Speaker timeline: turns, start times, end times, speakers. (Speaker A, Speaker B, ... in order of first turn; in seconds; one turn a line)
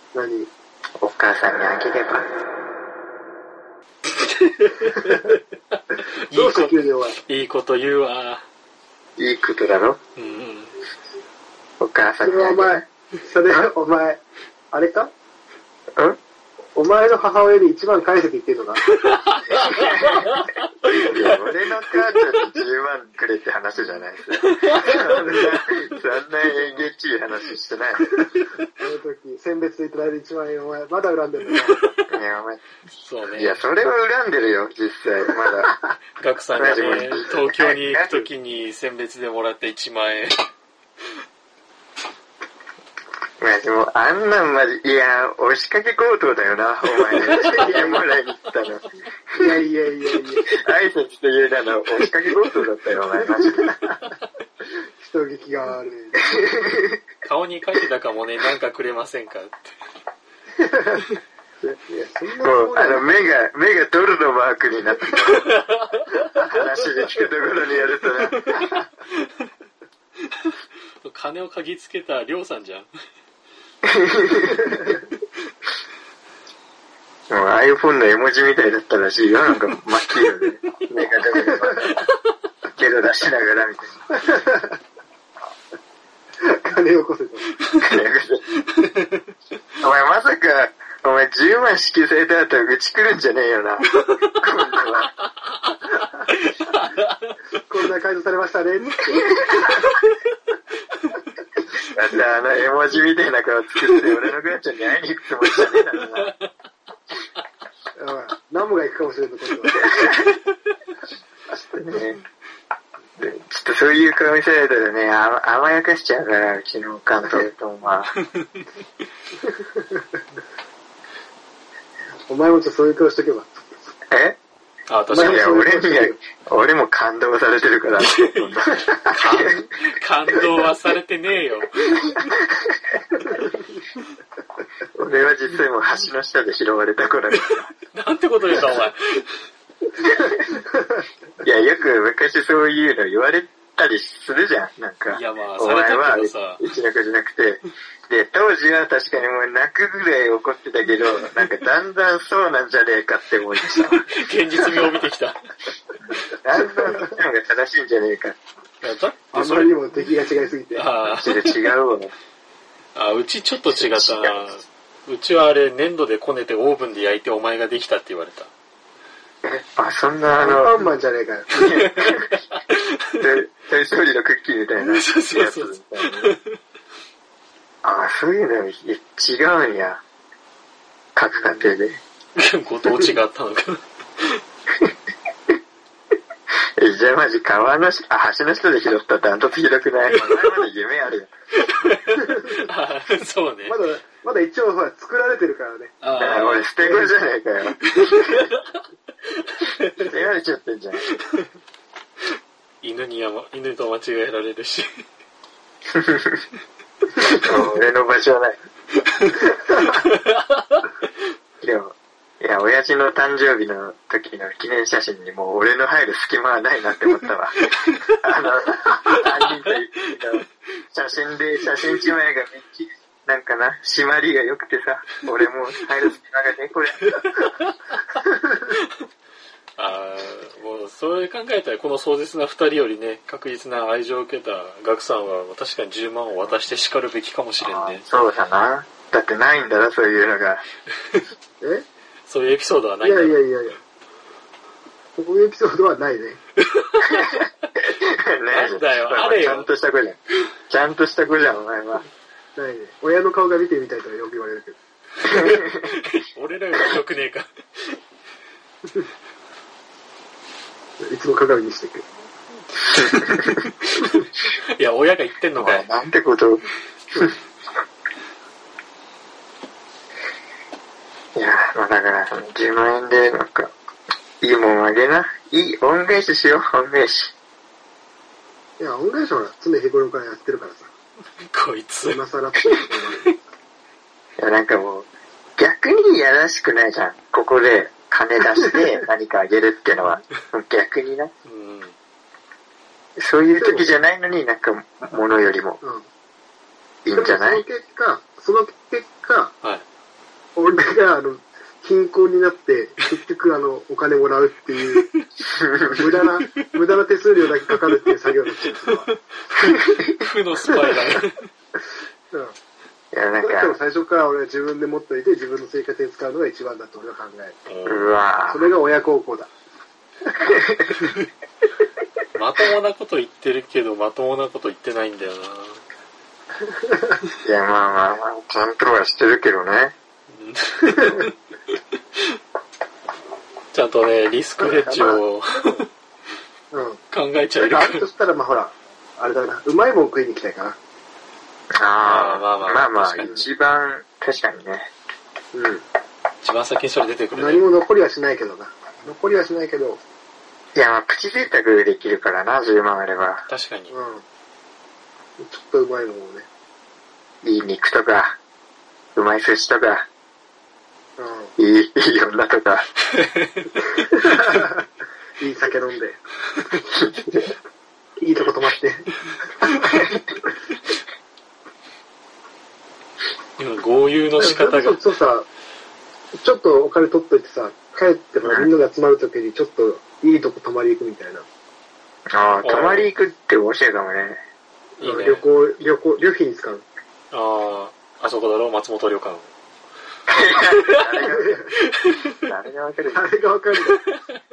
Speaker A: 0.1-0.5
Speaker B: 1.0-2.3
Speaker C: 4.2-8.4
Speaker A: 6.3-7.2
Speaker B: 9.2-10.0
Speaker C: 10.2-10.7
Speaker B: 11.8-12.8
Speaker A: 12.2-15.1
Speaker A: 16.8-18.9
Speaker C: 18.9-21.1
Speaker B: 19.6-20.3
Speaker B: 20.9-28.1
Speaker C: 24.4-25.4
Speaker A: 28.8-31.9
Speaker B: 32.1-32.6
Speaker C: 33.0-33.6
Speaker B: 33.4-35.8
Speaker C: 36.2-40.4
Speaker B: 36.5-38.2
Speaker B: 43.4-49.6
Speaker C: 47.1-48.0
Speaker A: 49.4-50.5
Speaker B: 50.5-53.7
Speaker A: 53.4-54.0
Speaker A: 54.7-56.7
Speaker C: 57.2-59.7
Speaker A: 60.6-61.1
Speaker A: 61.9-63.3
Speaker B: 62.4-65.5
Speaker C: 65.2-66.4
Speaker B: 66.4-68.6
Speaker C: 68.3-69.3
Speaker C: 70.4-72.9
Speaker B: 73.9-74.9
Speaker C: 74.9-75.2
Speaker B: 77.3-82.0
Speaker C: 81.8-82.1
Speaker B: 82.7-84.0
Speaker A: 84.1-84.8
Speaker A: 86.4-87.5
Speaker B: 87.8-88.5
Speaker C: 88.7-89.2
Speaker B: 89.8-95.1
Speaker C: 96.3-97.2
Speaker A: 97.6-99.7
Speaker B: 101.9-106.3
Speaker A: 108.0-110.0
Speaker B: 111.5-112.2
Speaker B: 113.2-118.1
Speaker A: 119.5-120.0
Speaker A: 122.3-123.7
Speaker B: 124.1-124.4
Speaker C: 124.9-125.5
Speaker B: 125.1-129.6
Speaker A: 125.1-126.2
Speaker C: 128.0-132.3
Speaker B: 132.5-132.8
Speaker B: 134.9-137.7
Speaker C: 137.9-139.4
Speaker A: 140.5-140.9
Speaker B: 141.4-154.1
Speaker C: 145.1-146.6
Speaker C: 153.6-155.4
Speaker B: 156.1-158.4
Speaker A: 156.9-157.2
Speaker C: 158.8-159.9
Speaker A: 159.3-160.9
Speaker C: 160.7-161.7
Speaker B: 161.1-162.1
Speaker C: 162.9-168.5
Speaker B: 163.7-164.4
Speaker B: 169.4-170.8
Speaker A: 170.4-171.9
Speaker B: 171.6-172.4
Speaker C: 171.6-172.8
Speaker B: 173.2-176.3
Speaker C: 174.8-176.5
Speaker B: 177.8-180.0
Speaker B: 181.2-182.0
Speaker A: 181.3-181.7
Speaker C: 182.4-184.4
Speaker B: 186.8-191.3
Speaker C: 190.1-190.6
Speaker C: 191.6-193.8
Speaker A: 192.2-192.7
Speaker A: 193.7-195.9
Speaker C: 196.0-196.7
Speaker B: 196.1-198.4
Speaker A: 196.8-197.1
Speaker C: 198.0-198.7
Speaker C: 199.6-199.9
Speaker B: 200.0-201.1
Speaker C: 202.8-205.0
Speaker B: 205.9-206.4
Speaker B: 207.3-208.6
Speaker C: 209.2-210.9
Speaker B: 211.6-227.2
Speaker C: 219.1-219.7
Speaker C: 227.1-228.9
Speaker C: 229.8-238.1
Speaker B: 237.6-240.6
Speaker A: 241.6-241.9
Speaker C: 242.3-243.4
Speaker A: 243.0-243.8
Speaker A: 245.2-246.4
Speaker C: 246.7-247.5
Speaker B: 247.1-252.1
Speaker C: 248.5-249.7
Speaker A: 252.6-254.8
Speaker B: 255.3-255.9
Speaker C: 255.3-258.0
Speaker A: 261.0-262.1
Speaker C: 264.7-265.9
Speaker B: 265.6-266.6
Speaker B: 271.4-273.7
Speaker B: 274.4-277.3
Speaker A: 278.8-280.9
Speaker C: 281.4-282.2
Speaker A: 282.0-283.3
Speaker B: 284.4-291.3
Speaker C: 291.5-291.9
Speaker B: 293.2-295.8
Speaker A: 293.6-293.9
Speaker A: 295.8-296.1
Speaker B: 297.1-297.6
Speaker A: 297.1-299.5
Speaker A: 300.6-305.1
Speaker C: 305.0-305.3
Speaker B: 305.4-306.1
Speaker A: 305.9-309.1
Speaker C: 308.9-309.2
Speaker B: 309.6-310.1
Speaker C: 310.0-311.5
Speaker B: 313.1-313.8
Speaker A: 313.4-317.6
Speaker C: 317.7-318.1
Speaker B: 317.9-318.7
Speaker A: 318.5-319.5
Speaker C: 322.4-325.8
Speaker A: 326.6-327.2
Speaker B: 327.4-329.9
Speaker C: 330.3-331.3
Speaker C: 333.7-335.9
Speaker A: 334.6-335.2
Speaker A: 336.7-337.0
Speaker C: 337.1-338.0
Speaker A: 337.6-340.8
Speaker B: 341.8-344.9
Speaker C: 342.0-343.3
Speaker A: 343.2-343.5
Speaker A: 345.5-345.9
Speaker C: 346.4-347.6
Speaker A: 347.3-350.0
Speaker B: 350.8-353.5
Speaker C: 353.5-353.9
Speaker A: 353.9-354.2
Speaker A: 355.4-356.5
Speaker B: 357.4-358.4
Speaker B: 359.1-360.1
Speaker A: 361.2-361.5
Speaker B: 361.6-362.9
Speaker C: 363.1-363.9
Speaker A: 364.0-364.9
Speaker A: 365.4-366.2
Speaker B: 367.0-367.4
Speaker A: 368.2-369.1
Speaker A: 369.6-369.9
Speaker C: 373.6-375.1
Speaker A: 374.4-375.5
Speaker A: 376.4-381.5
Speaker B: 378.4-378.7
Speaker B: 382.3-384.4
Speaker C: 382.6-383.1
Speaker C: 385.0-385.5
Speaker A: 385.0-386.9
Speaker C: 387.3-389.5
Speaker B: 390.3-391.8
Speaker A: 391.2-391.7
Speaker C: 392.1-392.4
Speaker B: 392.4-393.3
Speaker A: 393.1-394.0